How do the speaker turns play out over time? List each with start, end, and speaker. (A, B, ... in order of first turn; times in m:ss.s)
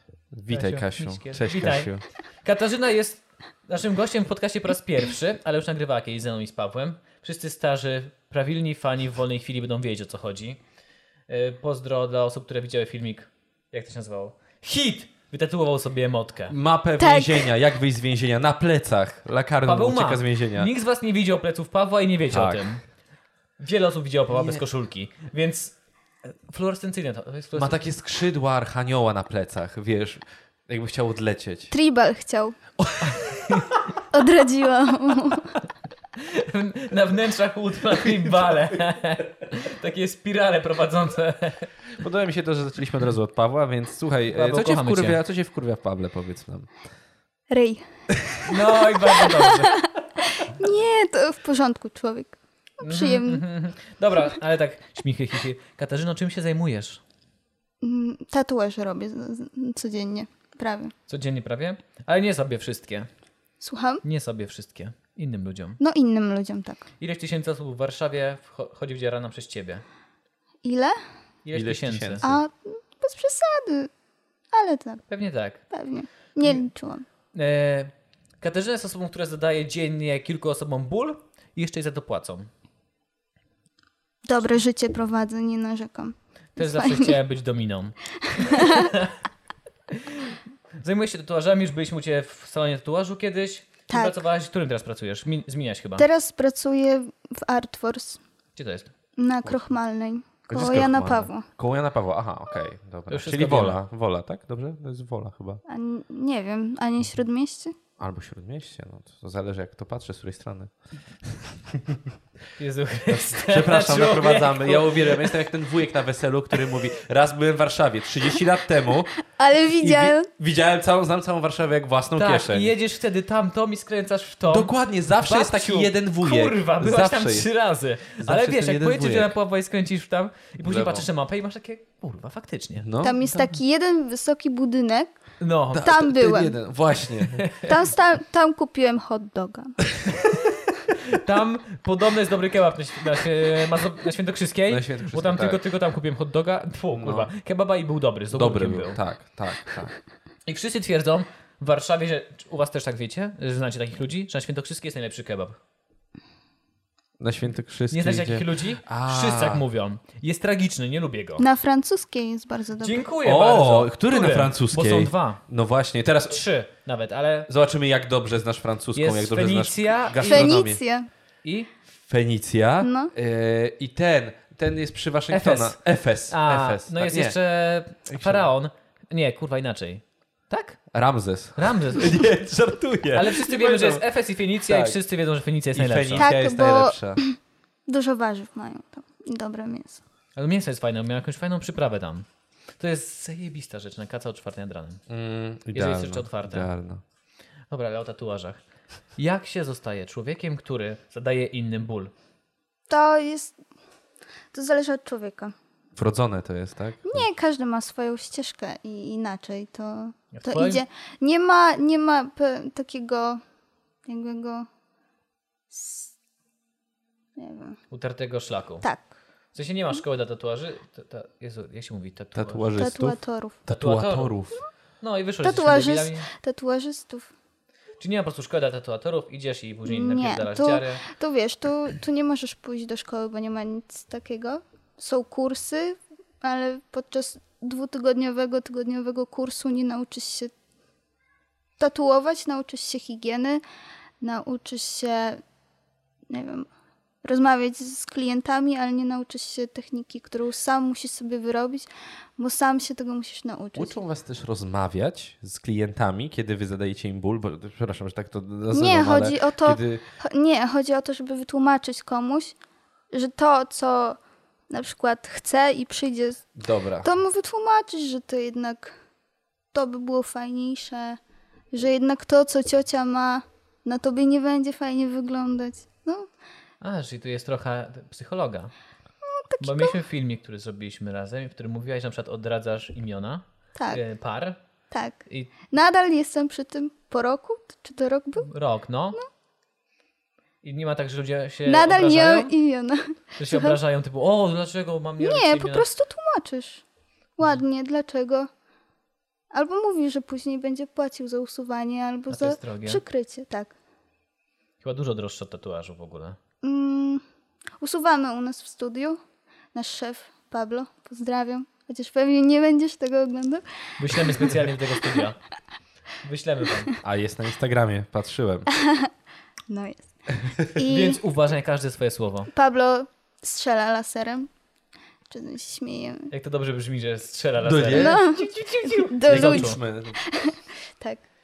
0:00.3-0:02.0 A
0:00.5-0:01.9 B
0:02.4-0:10.6 B
0:11.3-0:16.6 B
0:16.5-0:20.7 A
0:17.0-0:17.5 C
0:19.6-0:22.8 B
0:22.3-0:22.7 A
0:23.6-0:27.8 B
0:24.3-0:24.6 A
0:27.6-0:31.7 A
0:31.7-0:32.6 C
0:32.8-0:33.6 A
0:33.0-0:34.0 B
0:34.1-0:35.6 C
0:36.2-0:41.7 B
0:38.0-0:38.4 A
0:42.0-0:46.7 A
0:44.3-0:45.2 B
0:47.5-0:47.8 C
0:48.4-0:49.7 B
0:49.2-0:53.4 C
0:52.8-0:57.0 B
0:57.8-1:00.9 C
1:01.1-1:03.1 B
1:03.6-1:04.0 C
1:04.0-1:05.8 B
1:05.8-1:06.9 C
1:07.0-1:09.8 B
1:10.6-1:11.0 C
1:11.4-1:12.3 B
1:11.5-1:12.4 A
1:12.2-1:13.9 C
1:14.5-1:15.0 C
1:15.1-1:15.6 B
1:15.7-1:17.1 C
1:17.3-1:22.5 B
1:24.2-1:27.2 C
1:26.6-1:29.2 B
1:28.2-1:29.0 C
1:29.9-1:36.1 B
1:33.9-1:34.2 C
1:36.0-1:38.2 C
1:38.6-1:38.9 B
1:39.2-1:41.5 C
1:40.5-1:45.6 A
1:43.1-1:43.8 B
1:45.7-1:47.8 C
1:48.0-1:52.0 A
1:52.6-1:55.4 B
1:53.1-1:59.2 A
1:59.3-2:00.3 C
1:59.8-2:02.7 A
2:02.2-2:12.9 B
2:04.5-2:07.5 A
2:08.2-2:09.3 A
2:10.6-2:11.1 A
2:12.8-2:13.5 A
2:13.0-2:15.1 C
2:15.4-2:16.1 B
2:15.7-2:17.5 A
2:15.8-2:16.6 C
2:17.2-2:17.7 B
2:17.7-2:19.9 C
2:20.1-2:29.0 B
2:24.7-2:25.6 A
2:26.9-2:27.3 A
2:28.3-2:29.9 A
2:30.5-2:35.6 B
2:37.2-2:39.6 A
2:37.9-2:41.5 B
2:41.4-2:43.0 C
2:42.8-2:45.4 B
2:43.2-2:46.4 A
2:46.3-2:47.5 B
2:47.5-2:50.8 A
2:49.0-2:50.6 B
2:50.2-2:51.1 C
2:51.4-2:51.7 B
2:52.0-2:57.4 A
2:52.8-2:53.1 C
2:55.3-3:00.8 B
2:58.1-2:58.5 A
3:00.9-3:04.1 A
3:01.6-3:02.2 B
3:03.1-3:06.3 B
3:04.7-3:05.0 A
3:05.7-3:07.2 A
3:06.2-3:10.0 C
3:10.4-3:12.3 B
3:12.8-3:15.0 B
3:15.1-3:17.0 A
3:15.7-3:16.7 B
3:17.7-3:18.6 B
3:19.2-3:22.1 B
3:22.9-3:23.6 C
3:24.5-3:25.5 C
3:26.0-3:27.3 A
3:27.0-3:33.4 C
3:30.3-3:30.8 B
3:34.1-3:34.7 C
3:35.7-3:36.1 C
3:37.4-3:37.8 C
3:37.9-3:38.9 B
3:38.8-3:39.1 C
3:39.5-3:42.7 B
3:42.4-3:44.6 A
3:42.8-3:43.6 C
3:43.7-3:44.4 B
3:45.0-3:46.3 B
3:45.4-3:47.3 C
3:48.0-3:51.0 B
3:49.9-4:00.5 C
4:01.8-4:03.6 C
4:04.2-4:05.4 C
4:06.3-4:06.7 C
4:07.2-4:14.0 C
4:13.8-4:20.0 A
4:18.7-4:22.6 C
4:23.1-4:24.2 C
4:24.7-4:26.5 C
4:26.6-4:27.1 A
4:27.0-4:29.0 C
4:29.7-4:31.2 C
4:31.7-4:36.3 C
4:36.8-4:38.7 B
4:39.2-4:40.0 C
4:39.6-4:44.6 B
4:43.8-4:44.0 C
4:44.9-4:48.5 C
4:48.4-4:49.2 B
4:50.6-4:52.5 B
4:51.6-4:53.8 C
4:53.4-4:55.9 B
4:55.2-4:56.8 C
4:57.4-4:58.5 C
4:59.5-5:03.7 C
5:02.3-5:03.0 B
5:04.8-5:06.4 B
5:06.6-5:07.2 C
5:07.8-5:09.2 C
5:09.7-5:14.5 C
5:14.0-5:15.4 B
5:16.2-5:16.9 B
5:17.0-5:18.7 A
5:18.7-5:19.1 C
5:19.7-5:20.1 C
5:20.6-5:21.2 C
5:20.8-5:22.5 B
5:22.5-5:24.5 C
5:25.3-5:26.3 C
5:26.3-5:29.8 B
5:27.6-5:28.2 A
5:27.9-5:31.2 C
5:29.3-5:30.2 A